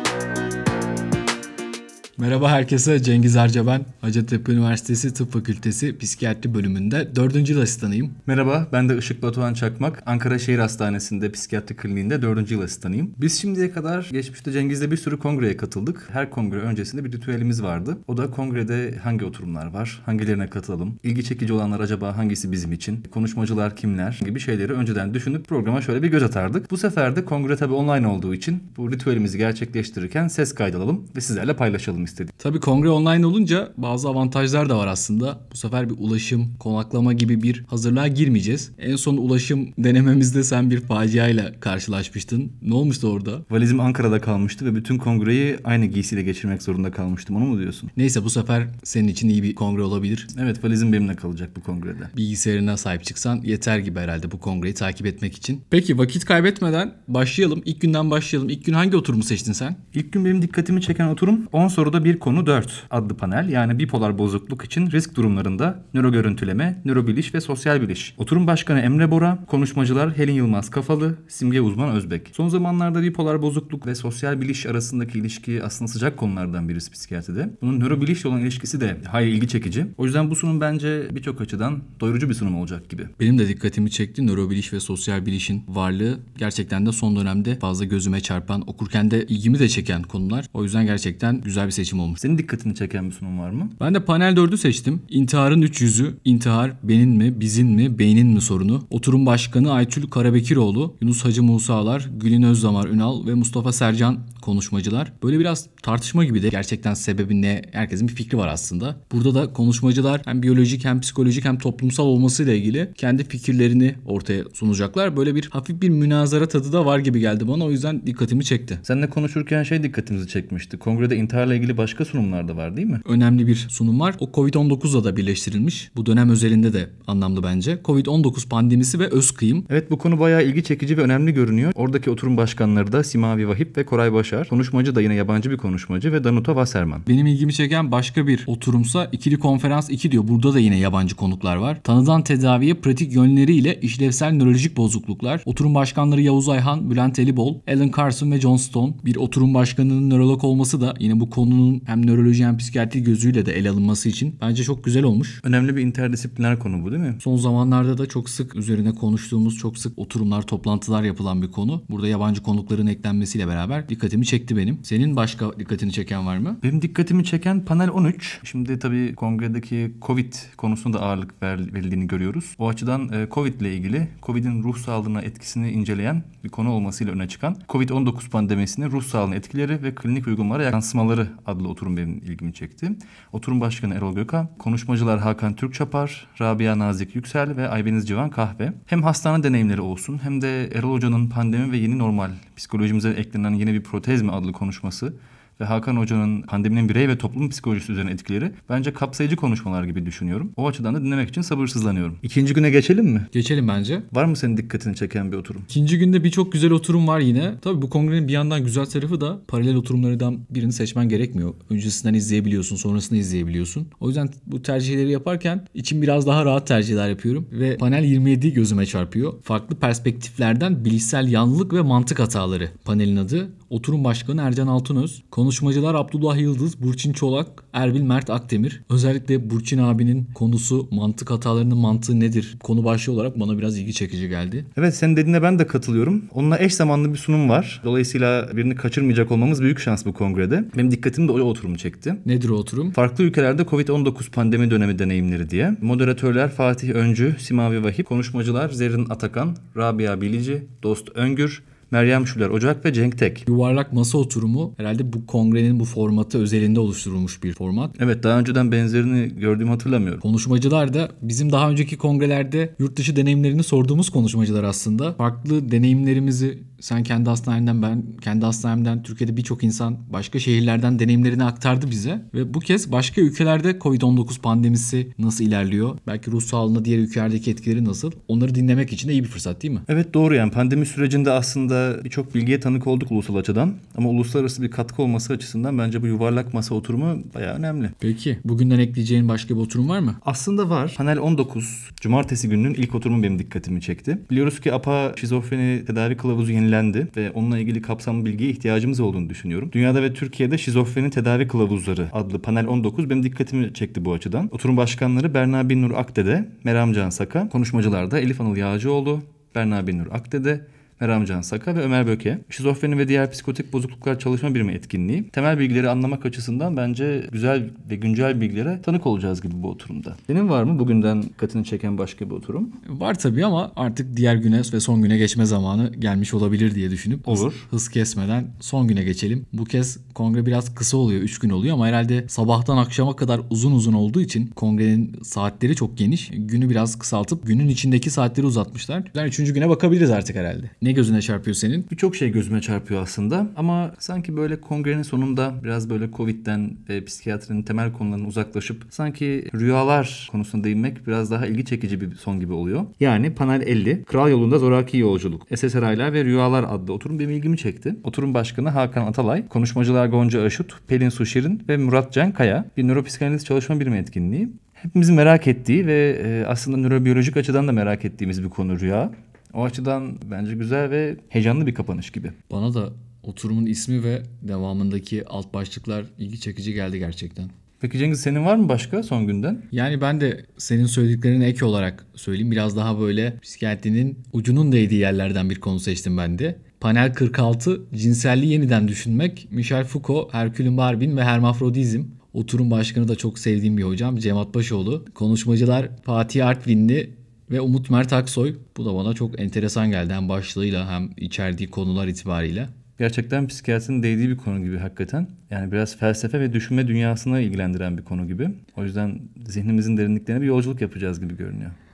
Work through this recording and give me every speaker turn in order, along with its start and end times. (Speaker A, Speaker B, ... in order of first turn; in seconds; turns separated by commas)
Speaker A: 2.2-8.2, Speaker B: 8.3-32.3, Speaker A: 32.4-43.5, Speaker B: 43.5-47.9, Speaker A: 48.0-50.3, Speaker B: 50.3-52.1, Speaker A: 52.1-59.8, Speaker B: 59.9-83.1, Speaker A: 83.2-92.2, Speaker B: 92.2-93.8, Speaker A: 93.8-118.8, Speaker B: 118.8-123.0, Speaker A: 123.0-129.7, Speaker B: 129.7-137.1, Speaker A: 137.1-155.4, Speaker B: 155.4-157.2, Speaker A: 157.2-166.6, Speaker B: 166.6-203.3, Speaker A: 203.3-204.1, Speaker B: 204.1-205.7, Speaker A: 205.7-234.7, Speaker B: 234.8-242.2, Speaker A: 242.2-243.0, Speaker B: 242.9-253.5, Speaker A: 253.5-257.9, Speaker B: 258.0-260.2, Speaker A: 260.2-279.9, Speaker B: 279.9-287.9, Speaker A: 288.0-290.2, Speaker B: 290.2-322.7, Speaker A: 322.9-341.9, Speaker B: 327.3-327.7, Speaker B: 341.9-372.4, Speaker A: 372.5-377.5, Speaker B: 377.8-379.7, Speaker A: 379.7-402.7, Speaker B: 403.0-411.8